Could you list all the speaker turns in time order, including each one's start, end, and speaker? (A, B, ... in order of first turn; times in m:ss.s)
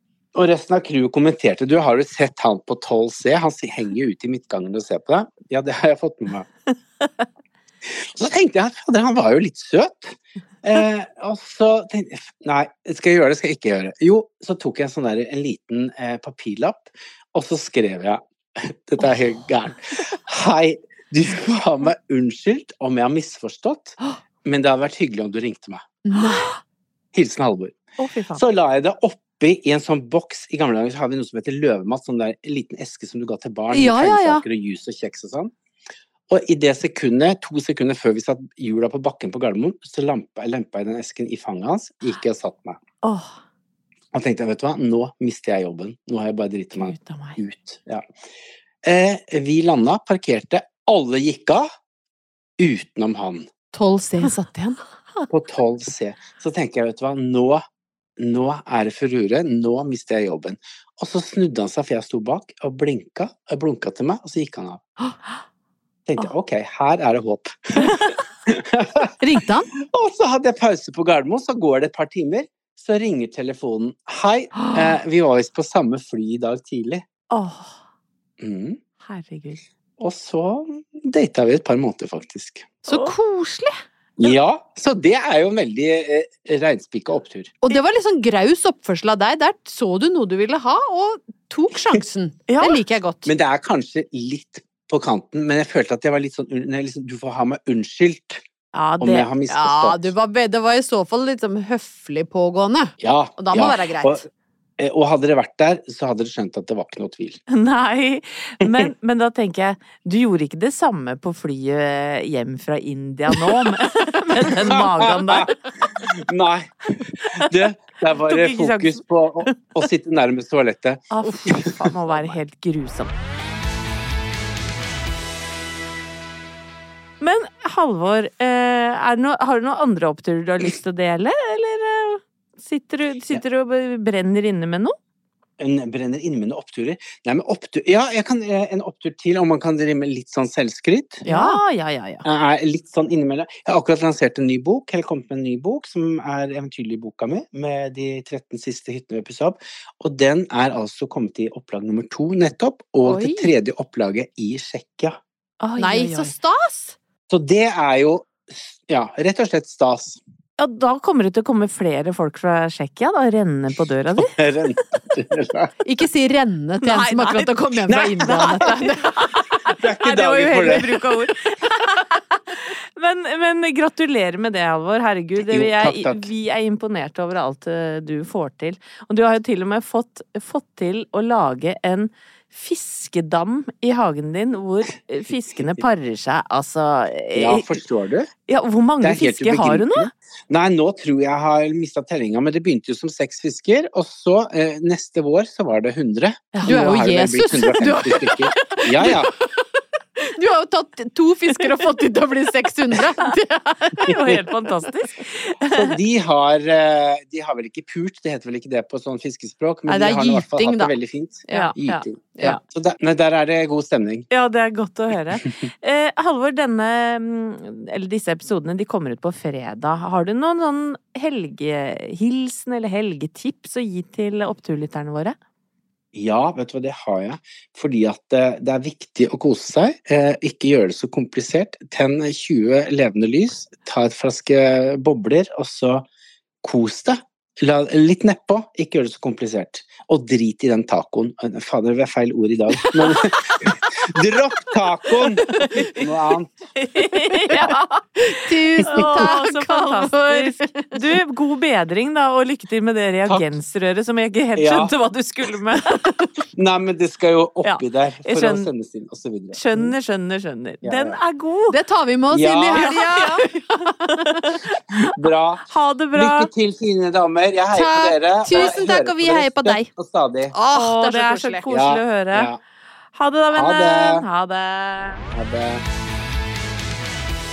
0:00.4-0:06.5 A
0:08.1-0:25.8 A
0:26.0-0:26.5 B
0:27.1-0:27.7 A
0:28.0-0:28.4 C
0:28.3-0:35.5 A
0:33.7-0:34.4 B
0:36.3-0:42.8 A
0:43.0-0:43.4 C
0:44.1-0:48.0 A
0:46.8-0:47.4 C
0:48.8-0:51.7 A
0:52.6-0:53.5 A
0:53.7-0:54.8 B
0:55.3-0:57.6 A
0:58.2-1:04.8 A
1:06.1-1:09.1 A
1:09.2-1:09.7 B
1:09.8-1:17.0 A
1:17.3-1:17.8 C
1:18.4-1:18.8 A
1:19.0-1:19.6 C
1:20.0-1:22.7 A
1:22.9-1:23.7 B
1:22.9-1:23.1 C
1:24.2-1:27.5 A
1:27.6-1:33.3 B
1:32.5-1:32.8 C
1:33.2-1:38.4 A
1:38.7-1:39.3 C
1:39.0-1:40.1 A
1:39.5-1:44.2 B
1:43.0-1:44.3 A
1:44.8-1:47.4 A
1:47.5-1:55.5 C
1:54.7-2:01.9 A
1:58.1-1:59.8 C
2:01.1-2:03.1 C
2:07.2-2:14.9 C
2:15.6-2:21.2 A
2:21.2-2:21.6 B
2:21.2-2:22.2 C
2:22.2-2:35.2 A
2:35.6-2:36.3 C
2:35.8-2:37.0 B
2:37.3-2:40.2 A
2:40.6-2:44.4 C
2:44.2-2:45.7 A
2:45.8-2:49.1 B
2:46.8-3:07.8 C
2:47.9-2:48.6 A
2:49.8-2:50.9 A
2:55.5-2:56.3 A
3:07.4-3:08.3 A
3:08.5-3:10.1 C
3:09.0-3:19.3 A
3:16.5-3:16.9 C
3:16.6-3:24.1 B
3:24.0-3:25.9 C
3:24.0-3:24.4 A
3:25.7-3:34.3 A
3:29.9-3:30.9 B
3:31.5-3:32.6 B
3:34.3-3:45.4 C
3:46.1-3:56.0 A
3:56.6-4:06.5 A
4:05.5-4:06.1 C
4:06.8-4:07.8 C
4:07.5-4:11.0 B
4:08.6-4:16.3 C
4:08.8-4:09.3 A
4:14.6-4:14.9 A
4:16.6-4:19.9 A
4:17.6-4:18.7 C
4:19.5-4:21.8 C
4:20.8-4:21.2 A
4:21.7-4:24.2 B
4:22.3-4:23.0 A
4:22.7-4:25.1 C
4:25.1-4:30.5 A
4:25.7-4:26.5 C
4:27.7-4:29.9 B
4:28.5-4:28.8 C
4:30.5-4:31.7 B
4:30.7-4:32.5 C
4:31.7-4:32.6 A
4:33.1-4:35.2 C
4:33.5-4:34.2 A
4:35.3-4:35.8 A